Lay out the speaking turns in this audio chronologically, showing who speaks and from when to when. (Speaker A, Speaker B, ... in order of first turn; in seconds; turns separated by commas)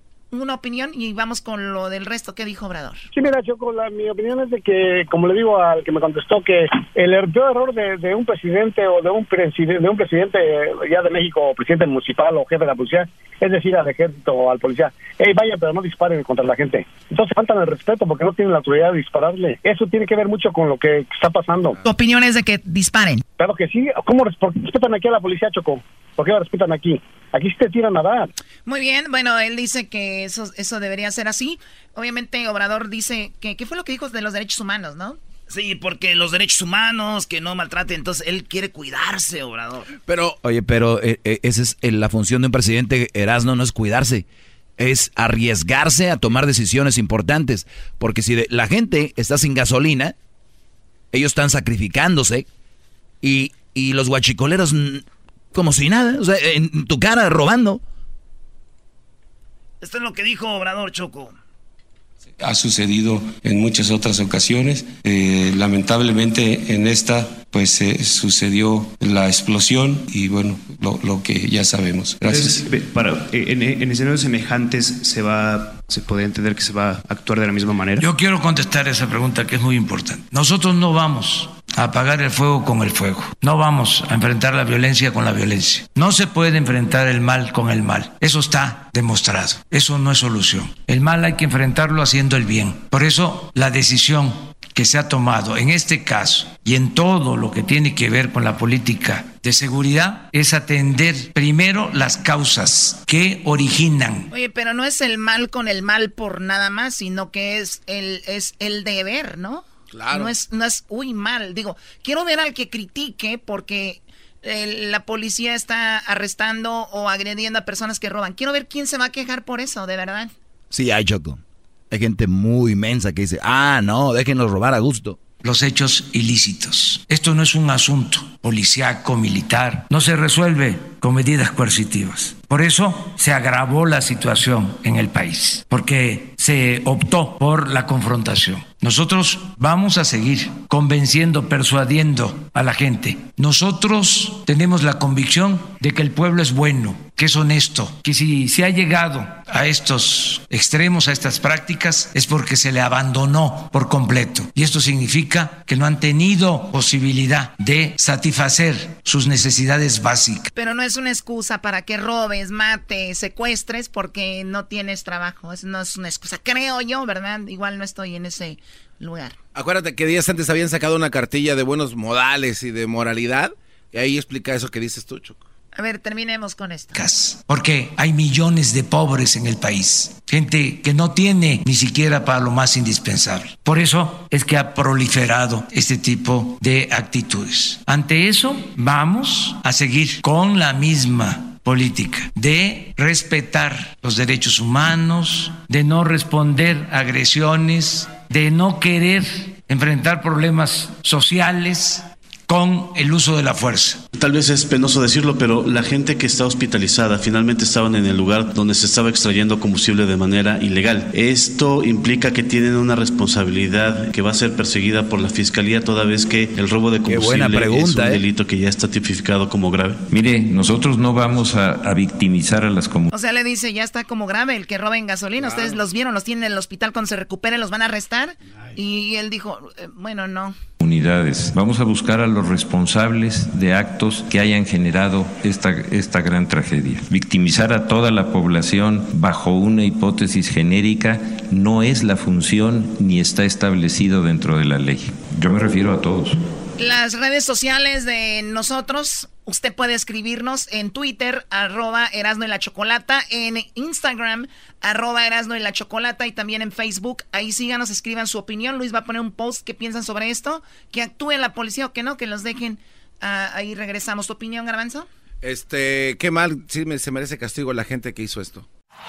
Speaker A: 0.3-3.0, Speaker B: 3.1-21.8, Speaker A: 21.8-23.2, Speaker B: 23.4-28.3, Speaker A: 28.7-35.2, Speaker C: 35.5-39.9, Speaker D: 40.1-40.4, Speaker E: 40.4-44.2, Speaker E: 44.8-50.1, Speaker E: 51.1-52.5, Speaker E: 53.2-57.8, Speaker C: 59.8-61.3, Speaker F: 62.4-72.6, Speaker G: 72.2-78.1, Speaker H: 78.0-104.3, Speaker A: 104.3-120.3, Speaker D: 109.9-110.4, Speaker E: 120.7-125.2, Speaker H: 125.4-160.5, Speaker A: 160.6-169.4, Speaker D: 169.5-175.4, Speaker A: 175.8-177.0, Speaker H: 176.9-204.0, Speaker I: 204.1-220.0, Speaker E: 217.1-218.2, Speaker J: 220.1-223.1, Speaker A: 223.1-230.6, Speaker D: 225.4-225.8, Speaker J: 230.8-246.4, Speaker A: 246.8-265.1, Speaker D: 265.4-268.6